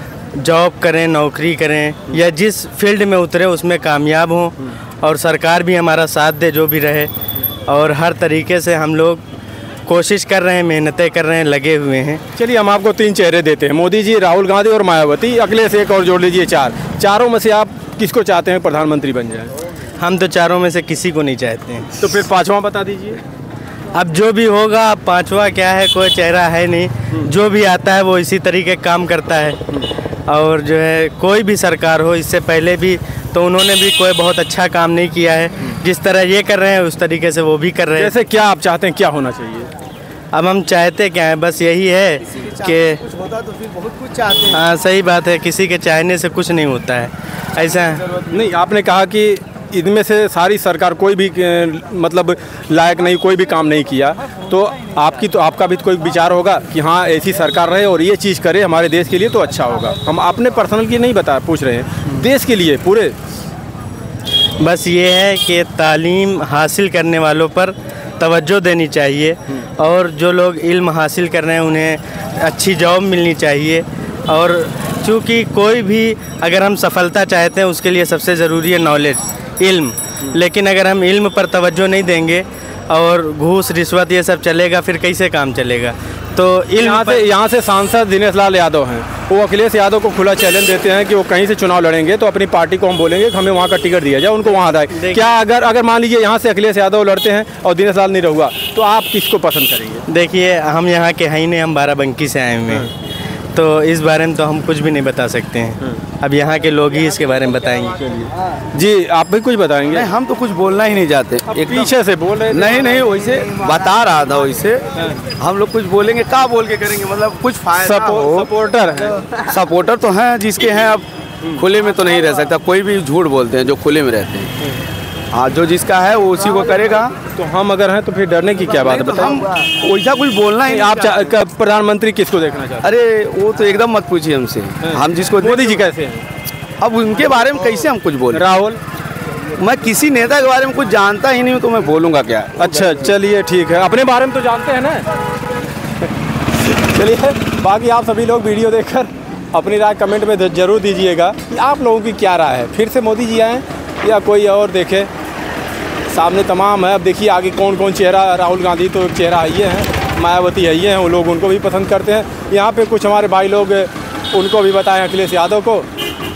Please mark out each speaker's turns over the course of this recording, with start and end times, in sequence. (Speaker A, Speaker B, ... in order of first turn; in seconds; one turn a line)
Speaker A: 0.3-7.1
Speaker A: 7.7-9.2
Speaker A: 9.8-12.2
Speaker B: 12.3-19.5
Speaker A: 20.0-21.9
Speaker B: 22.0-23.2
Speaker A: 23.9-29.6
Speaker A: 30.3-38.1
Speaker B: 38.0-39.7
Speaker A: 40.3-43.0
Speaker C: 43.2-44.3
Speaker A: 44.4-48.0
Speaker B: 48.3-63.1
Speaker A: 64.6-87.2
Speaker B: 86.8-100.0
Speaker A: 94.9-95.2
Speaker A: 100.1-102.9
Speaker A: 103.5-108.3
Speaker B: 108.7-110.1
Speaker C: 109.9-111.9
Speaker B: 111.5-112.9
Speaker C: 112.5-114.8
Speaker C: 115.4-118.4
Speaker B: 117.8-119.2
Speaker C: 119.5-124.5
Speaker C: 125.3-127.1
Speaker B: 127.3-129.4
Speaker C: 128.8-131.2
Speaker B: 130.7-132.8
Speaker C: 132.8-135.8
Speaker B: 134.8-136.2
Speaker C: 136.8-138.4
Speaker B: 138.3-138.8
Speaker C: 139.6-142.9
Speaker B: 142.6-145.0
Speaker B: 146.6-155.1
Speaker B: 156.1-165.9